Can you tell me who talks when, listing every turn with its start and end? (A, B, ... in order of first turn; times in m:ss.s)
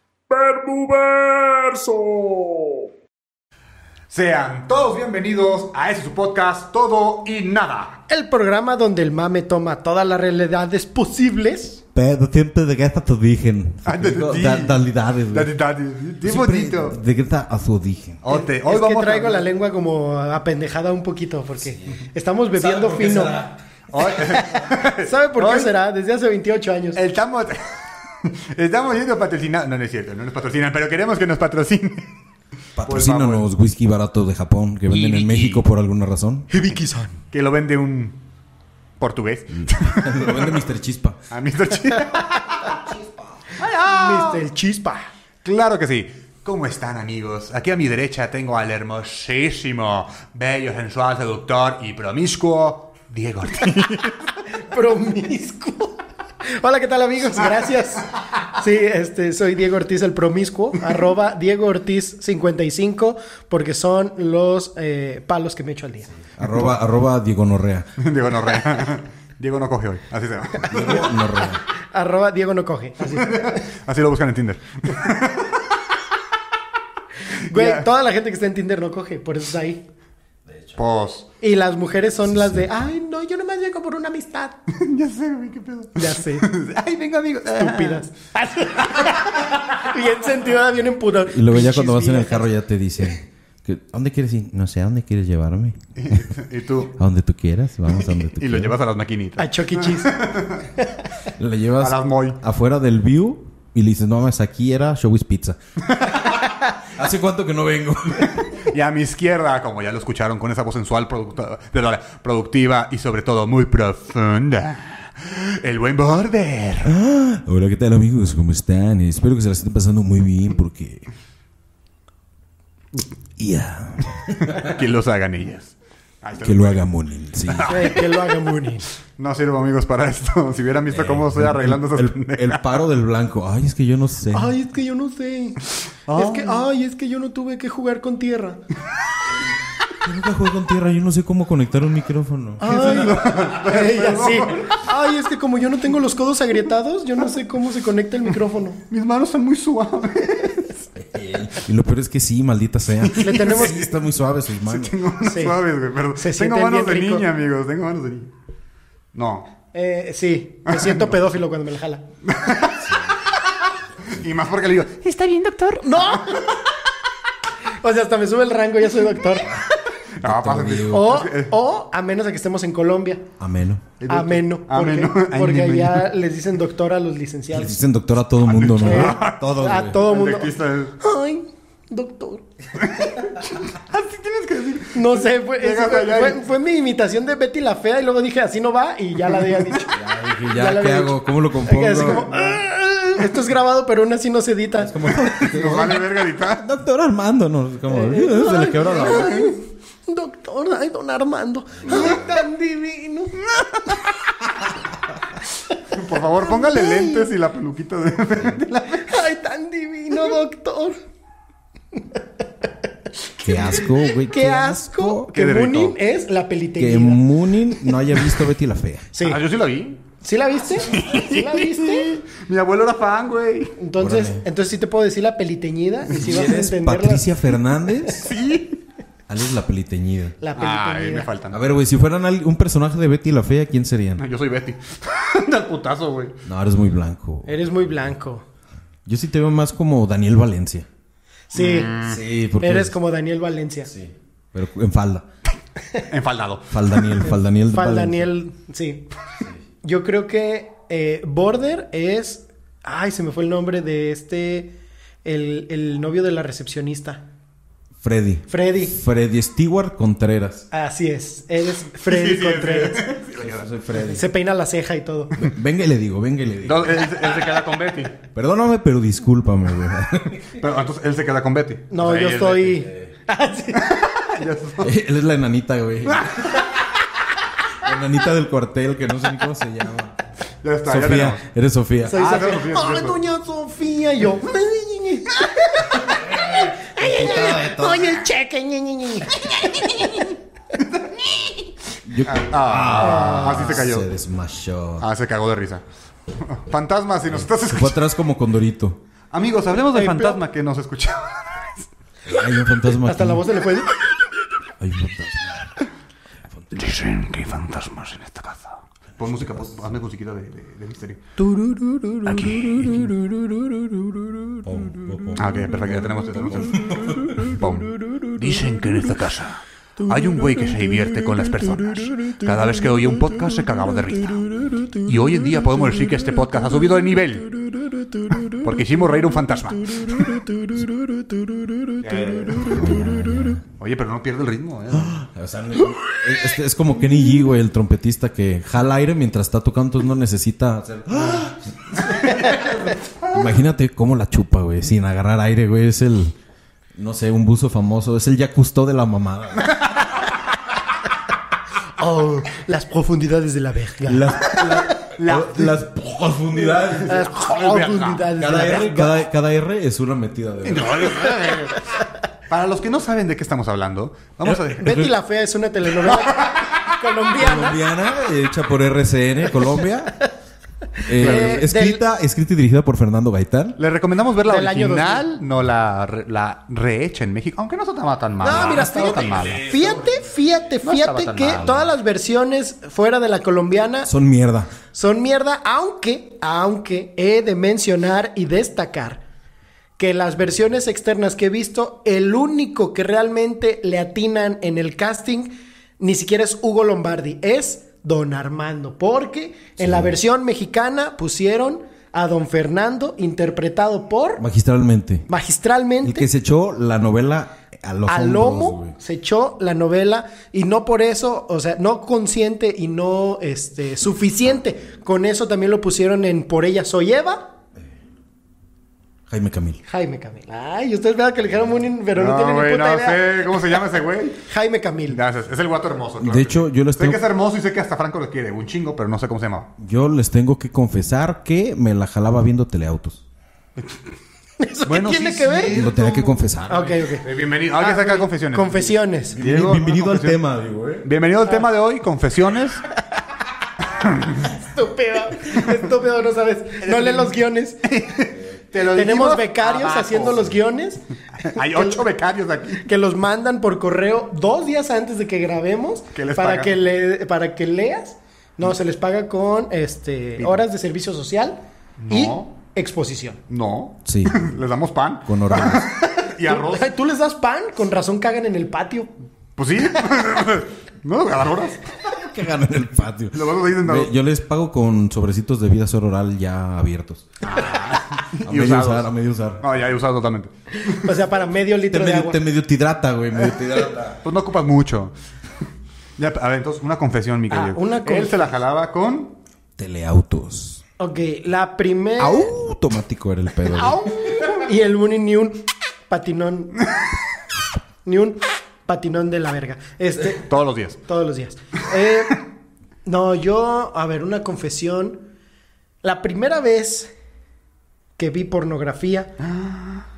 0:00.3-0:02.9 A
0:04.1-0:08.0 B
0:08.1-0:11.8 C
0:11.9-0:15.5 D
0:13.8-0:17.0 B
0:16.2-0:18.2 D
0:18.2-0:19.5 B
0:18.3-0:23.4 C
0:22.6-0:23.6 D
0:23.9-0:25.7 B
0:24.2-0:27.0 C
0:26.9-0:27.6 B
0:28.2-0:32.1 B
0:32.8-0:36.5 D
0:32.8-0:33.5 B
0:34.9-0:35.6 B
0:36.5-0:37.2 C
0:37.3-0:38.2 B
0:39.0-0:40.6 B
0:39.9-0:41.2 D
0:41.3-0:42.9 B
0:43.6-0:44.4 B
0:43.9-0:45.1 C
0:45.4-0:54.3 B
0:54.6-1:06.1 C
1:06.3-1:07.9 D
1:08.0-1:11.1 B
1:10.7-1:11.6 D
1:11.8-1:13.6 C
1:13.2-1:15.6 B
1:17.4-1:19.8 C
1:17.5-1:17.8 B
1:20.8-1:21.3 B
1:21.4-1:24.6 C
1:22.3-1:22.7 D
1:24.7-1:28.1 B
1:26.0-1:26.5 C
1:27.5-1:32.5 C
1:31.3-1:36.3 D
1:36.0-1:36.9 B
1:36.9-1:38.7 D
1:38.0-1:40.7 B
1:39.4-1:40.2 C
1:40.8-1:41.0 C
1:41.4-1:45.6 D
1:41.8-1:42.4 B
1:45.9-1:46.4 B
1:46.8-1:48.5 D
1:48.3-1:57.0 B
1:56.8-2:01.1 D
2:03.4-2:04.7 D
2:04.4-2:06.8 B
2:06.4-2:07.9 D
2:07.5-2:08.1 B
2:07.7-2:08.8 C
2:09.2-2:12.6 B
2:10.9-2:14.6 D
2:14.3-2:18.6 C
2:16.1-2:16.6 B
2:20.0-2:22.7 D
2:22.6-2:28.8 C
2:22.6-2:24.8 B
2:28.8-2:30.8 B
2:31.0-2:35.0 D
2:33.0-2:33.9 B
2:33.1-2:33.8 C
2:34.6-2:38.3 B
2:35.2-2:35.6 C
2:36.2-2:37.3 C
2:39.1-2:39.5 B
2:39.7-2:42.0 C
2:40.7-2:41.1 B
2:42.2-2:42.9 B
2:44.0-2:45.3 B
2:45.8-2:46.6 C
2:46.0-2:46.4 B
2:47.8-2:49.6 C
2:50.2-2:51.5 B
2:50.2-2:51.1 D
2:50.9-2:53.2 C
2:53.4-2:53.8 D
2:54.0-2:56.1 B
2:54.1-2:57.8 C
2:57.5-3:00.0 D
2:58.4-3:01.0 B
2:58.8-3:02.4 C
3:02.8-3:06.4 B
3:04.9-3:14.9 C
3:09.9-3:12.3 D
3:14.8-3:19.5 D
3:15.3-3:16.6 B
3:17.9-3:24.1 C
3:25.9-3:29.1 B
3:26.4-3:27.3 C
3:29.0-3:31.0 C
3:33.4-3:35.3 D
3:33.4-3:37.2 C
3:35.3-3:36.0 B
3:36.8-3:39.1 D
3:39.1-3:39.4 C
3:39.2-3:40.0 B
3:40.2-3:42.1 C
3:40.8-3:43.8 B
3:43.8-3:47.3 C
3:44.0-3:44.4 D
3:46.1-3:48.3 D
3:48.1-3:48.8 B
3:49.3-3:50.4 D
3:50.4-3:51.3 C
3:50.6-3:51.6 B
3:51.5-3:54.2 D
3:54.2-3:56.4 B
3:56.4-3:57.5 D
3:57.4-3:58.4 C
3:59.0-4:00.9 D
4:01.5-4:01.9 C
4:01.5-4:02.2 B
4:02.0-4:03.0 D
4:02.6-4:03.9 C
4:03.9-4:05.2 D
4:06.0-4:07.2 B
4:06.7-4:08.3 D
4:07.3-4:09.1 C
4:09.8-4:17.2 C
4:18.0-4:20.6 D
4:18.5-4:19.0 C
4:20.7-4:23.1 C
4:22.0-4:23.7 B
4:23.4-4:24.2 D
4:24.0-4:25.5 C
4:25.4-4:27.2 D
4:26.6-4:28.2 B
4:28.3-4:30.6 D
4:30.5-4:32.8 B
4:31.9-4:34.1 C
4:33.8-4:35.0 B
4:34.8-4:36.6 D
4:36.2-4:36.5 B
4:37.7-4:40.1 D
4:40.6-4:41.4 B
4:40.8-4:42.3 D
4:42.0-4:50.2 C
4:42.2-4:43.2 B
4:46.8-4:48.2 D
4:52.0-4:55.1 D
4:52.2-4:54.1 B
4:53.0-4:53.8 C
4:55.0-4:58.1 B
4:57.3-4:59.0 D
4:59.3-5:01.8 B
4:59.9-5:00.4 C
5:02.2-5:03.4 D
5:03.0-5:03.9 C
5:04.8-5:05.8 D
5:06.7-5:11.2 B
5:11.4-5:13.0 C
5:12.2-5:13.1 B
5:14.6-5:17.4 D
5:15.3-5:27.5 B
5:20.0-5:23.0 C
5:24.2-5:26.4 C
5:27.9-5:28.7 C
5:28.5-5:30.3 B
5:29.8-5:32.8 C
5:32.0-5:32.7 B
5:32.6-5:33.6 D
5:33.8-5:35.2 B
5:34.9-5:42.0 D
5:42.0-5:43.5 B
5:43.3-5:46.3 D
5:46.9-5:49.8 D
5:52.0-5:55.1 C
5:54.0-5:57.2 D
5:54.6-5:55.8 B
5:57.0-5:59.2 C
5:57.1-5:58.3 B
5:58.4-6:01.1 D
6:00.6-6:02.0 B
6:02.5-6:05.1 B
6:04.4-6:05.1 D
6:04.8-6:07.8 C
6:06.2-6:06.8 B
6:07.3-6:10.3 D
6:11.0-6:13.8 D
6:11.2-6:12.0 C
6:11.2-6:11.6 B
6:13.8-6:19.6 B
6:14.4-6:15.2 C
6:18.4-6:24.1 C
6:18.5-6:20.2 D
6:20.8-6:21.8 B
6:24.0-6:24.7 D
6:24.9-6:29.2 C
6:30.0-6:44.4 C
6:39.8-6:40.1 D
6:44.4-6:45.3 D
6:45.3-6:46.3 C
6:46.0-6:49.0 D
6:48.1-6:57.5 C
6:59.3-6:59.8 D
6:59.8-7:03.4 C
7:02.1-7:04.4 B
7:04.5-7:05.2 C
7:05.1-7:09.7 B
7:06.2-7:07.2 D
7:09.8-7:13.2 D
7:14.6-7:15.8 C
7:14.8-7:16.6 B
7:15.7-7:17.0 D
7:16.7-7:19.4 C
7:17.2-7:20.4 B
7:19.3-7:21.1 D
7:21.0-7:22.8 B
7:23.9-7:24.5 B
7:24.6-7:27.8 C
7:26.8-7:30.5 B
7:28.9-7:32.0 C
7:31.4-7:32.8 B
7:32.8-7:43.4 C
7:36.1-7:36.7 B
7:40.4-7:40.6 B
7:42.0-7:42.5 B
7:43.5-7:46.9 B
7:44.0-7:44.6 D
7:45.2-7:45.9 D
7:46.2-7:49.1 C
7:49.6-7:51.9 B
7:52.0-7:57.5 D
7:53.3-7:54.1 B
7:57.4-8:01.1 B
7:58.4-7:59.7 D
8:00.8-8:02.4 C
8:01.9-8:04.2 D
8:04.1-8:05.1 B
8:06.2-8:09.4 B
8:07.5-8:08.4 C
8:09.8-8:10.8 D
8:11.0-8:12.5 C
8:12.2-8:14.0 D
8:13.7-8:14.7 B
8:14.4-8:16.8 C
8:18.0-8:20.4 C
8:20.3-8:21.0 B
8:21.0-8:22.4 C
8:23.0-8:25.2 C
8:26.0-8:27.1 C
8:28.2-8:29.3 C
8:29.4-8:30.0 B